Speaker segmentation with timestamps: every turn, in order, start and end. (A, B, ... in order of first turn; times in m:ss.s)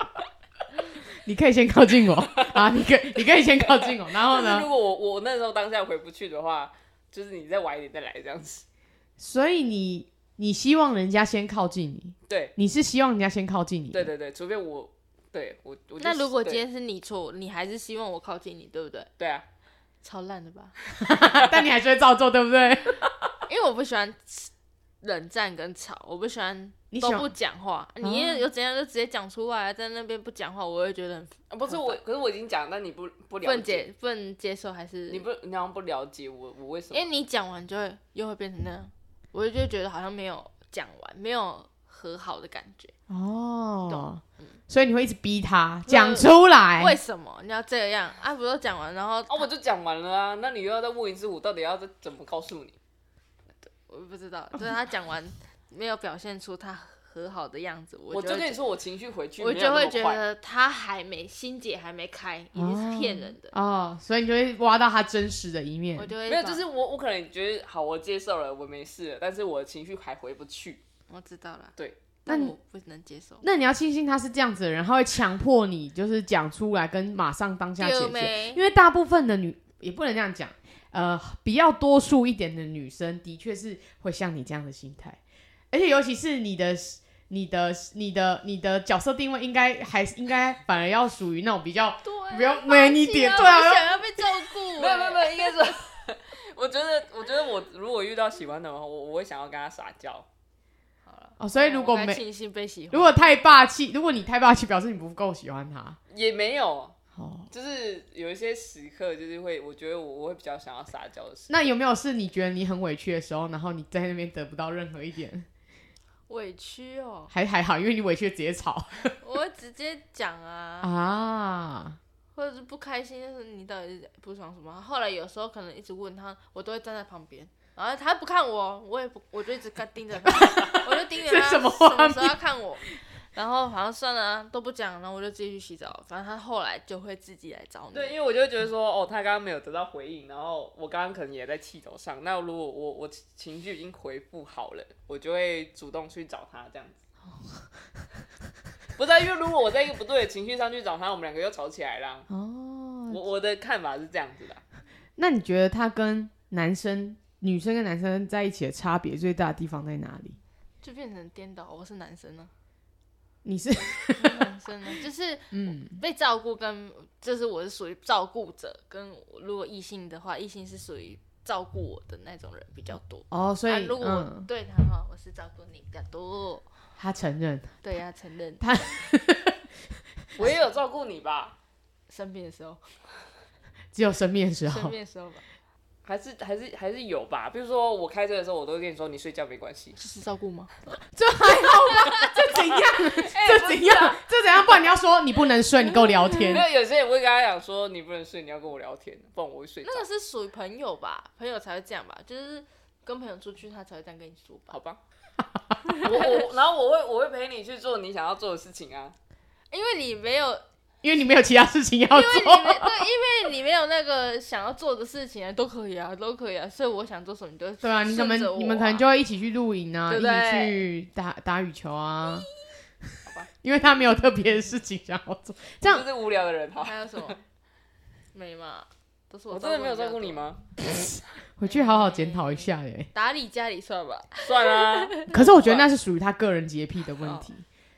0:01.2-0:04.7 A
0:02.3-0:02.8 B
0:03.3-0:08.6 B
0:09.2-0:14.1 A
0:12.3-0:12.5 B
0:13.9-0:16.6 B
0:16.0-0:19.1 C
0:19.2-0:19.4 B
0:20.0-0:20.8 C
0:21.0-0:23.1 A
0:23.5-0:32.0 C
0:26.9-0:27.3 A
0:28.0-0:28.4 A
0:31.5-0:33.8 B
0:33.4-0:35.2 C
0:35.1-0:37.1 B
0:36.9-0:42.9 C
0:43.1-0:47.0 A
0:43.9-0:44.6 C
0:45.9-0:49.5 C
0:49.3-0:52.8 B
0:53.7-0:58.6 C
0:58.1-1:00.2 B
0:59.4-1:03.5 C
1:02.6-1:06.1 A
1:06.0-1:06.6 C
1:06.3-1:10.8 B
1:11.1-1:13.5 C
1:12.3-1:12.5 A
1:13.4-1:25.2 A
1:17.8-1:18.6 C
1:25.7-1:34.0 A
1:32.0-1:35.7 C
1:34.7-1:40.3 B
1:41.1-1:43.2 C
1:41.4-1:42.2 A
1:42.9-1:46.0 A
1:46.1-1:47.0 B
1:47.2-1:47.5 A
1:47.5-1:51.5 B
1:51.5-1:55.5 A
1:56.3-1:57.3 C
1:57.3-1:59.2 A
1:59.2-2:00.9 C
2:00.8-2:02.0 A
2:02.4-2:18.1 C
2:10.3-2:12.4 A
2:17.9-2:27.0 B
2:29.0-2:32.3 B
2:32.3-2:33.2 A
2:33.1-2:34.6 B
2:35.2-2:40.4 A
2:40.8-2:42.5 C
2:43.4-2:44.5 A
2:44.2-2:56.7 C
2:45.5-2:46.0 A
2:53.3-2:54.5 A
2:57.0-2:57.8 A
2:57.8-2:58.6 C
2:58.6-2:59.6 A
3:00.4-3:01.6 B
3:02.1-3:02.8 C
3:03.9-3:05.0 A
3:04.7-3:05.4 C
3:06.0-3:10.0 B
3:10.0-3:10.8 C
3:11.1-3:16.7 A
3:11.9-3:12.3 C
3:13.1-3:14.2 B
3:16.3-3:20.1 B
3:19.8-3:24.8 C
3:24.7-3:25.0 B
3:25.9-3:26.3 C
3:26.0-3:29.2 B
3:29.7-3:30.6 C
3:31.0-3:33.0 A
3:32.1-3:39.0 C
3:37.8-3:42.5 A
3:40.1-3:40.8 C
3:43.6-3:46.1 A
3:45.8-3:47.4 B
3:46.8-3:47.4 C
3:48.3-3:50.5 C
3:49.5-3:50.6 B
3:50.9-3:53.1 A
3:51.6-3:55.2 C
3:54.4-3:55.9 B
3:55.3-3:57.6 A